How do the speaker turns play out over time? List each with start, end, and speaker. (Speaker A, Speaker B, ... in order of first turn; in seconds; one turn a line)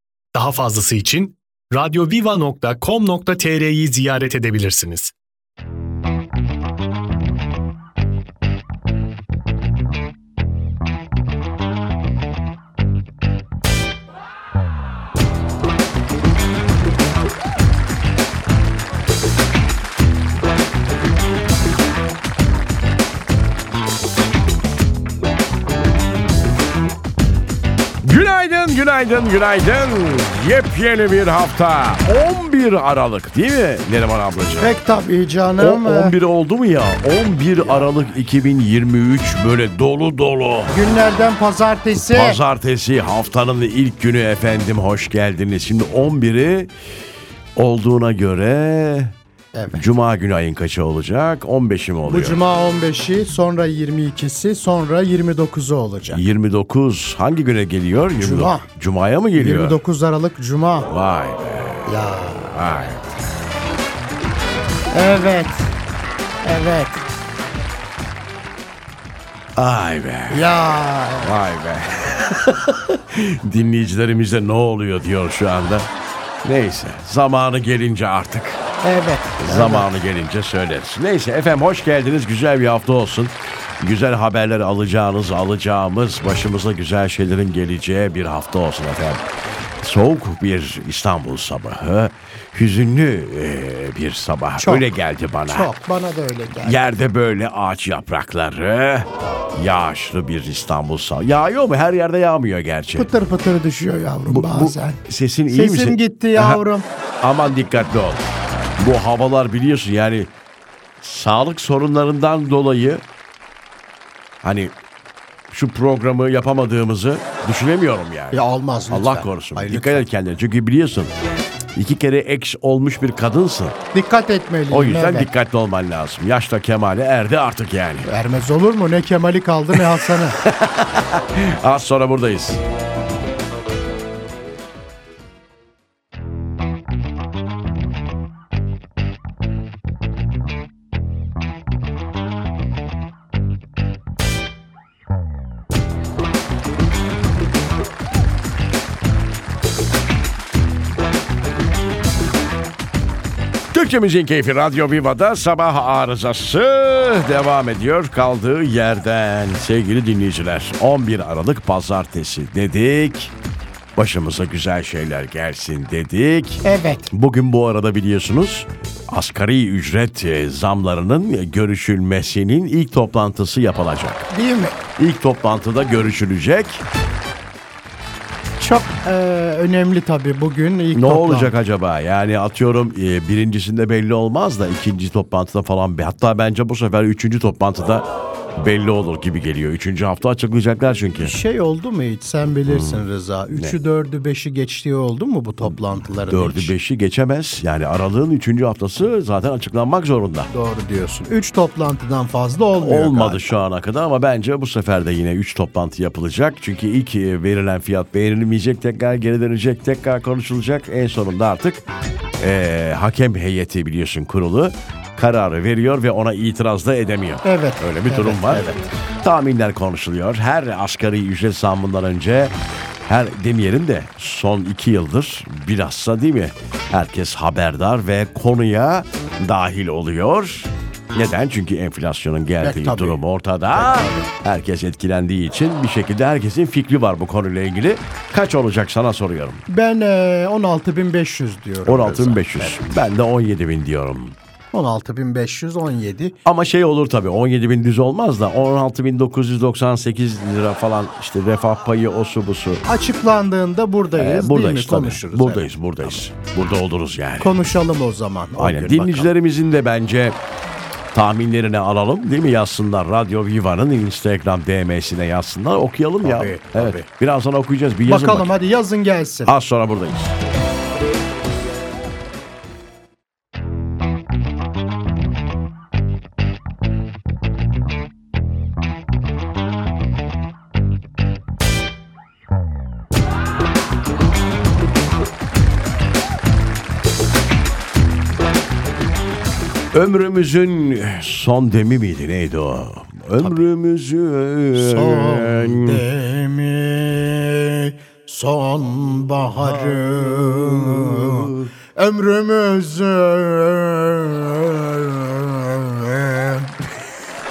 Speaker A: 0.3-5.1
Speaker B: 28.0-34.7
Speaker C: 34.6-36.2
Speaker B: 35.6-40.7
Speaker C: 40.7-42.4
Speaker B: 42.0-46.7
Speaker B: 47.5-49.1
Speaker C: 49.5-49.9
Speaker B: 49.7-52.4
Speaker C: 52.0-56.2
Speaker B: 56.1-59.8
Speaker C: 58.2-58.7
Speaker C: 59.3-60.9
Speaker B: 60.9-63.0
Speaker C: 61.9-62.5
Speaker C: 64.9-65.7
Speaker C: 66.4-67.0
Speaker B: 69.5-70.6
Speaker C: 70.3-71.3
Speaker B: 71.2-75.9
Speaker B: 76.4-78.6
Speaker C: 78.8-79.9
Speaker B: 79.4-89.2
Speaker B: 89.8-95.7
Speaker C: 94.6-94.9
Speaker C: 95.5-96.8
Speaker B: 96.6-103.1
Speaker C: 102.9-106.9
Speaker B: 104.2-106.6
Speaker B: 107.2-110.3
Speaker B: 111.0-113.0
Speaker B: 114.4-114.7
Speaker B: 115.5-121.1
Speaker C: 118.3-120.0
Speaker B: 121.8-123.8
Speaker C: 123.9-125.3
Speaker B: 124.7-128.1
Speaker C: 128.0-130.4
Speaker B: 130.4-132.6
Speaker B: 153.7-163.3
Speaker B: 164.0-174.3
Speaker C: 166.6-167.1
Speaker C: 174.3-174.8
Speaker B: 175.0-176.8
Speaker C: 178.6-181.5
Speaker B: 180.9-188.1
Speaker B: 188.6-191.4
Speaker C: 191.2-196.7
Speaker B: 192.7-193.8
Speaker B: 196.3-200.5
Speaker C: 200.5-203.6
Speaker B: 202.8-211.8
Speaker B: 212.4-222.5
Speaker C: 217.4-218.8
Speaker B: 223.1-239.6
Speaker C: 232.6-233.2
Speaker C: 233.7-234.3
Speaker C: 239.7-242.8
Speaker B: 241.9-244.4
Speaker C: 244.7-246.4
Speaker B: 246.4-252.8
Speaker C: 252.8-256.2
Speaker B: 254.1-257.5
Speaker C: 257.4-259.3
Speaker B: 258.6-260.4
Speaker B: 261.1-268.5
Speaker C: 266.2-267.1
Speaker C: 268.0-269.5
Speaker B: 269.4-270.3
Speaker B: 289.9-296.0
Speaker C: 294.7-306.7
Speaker B: 299.6-301.7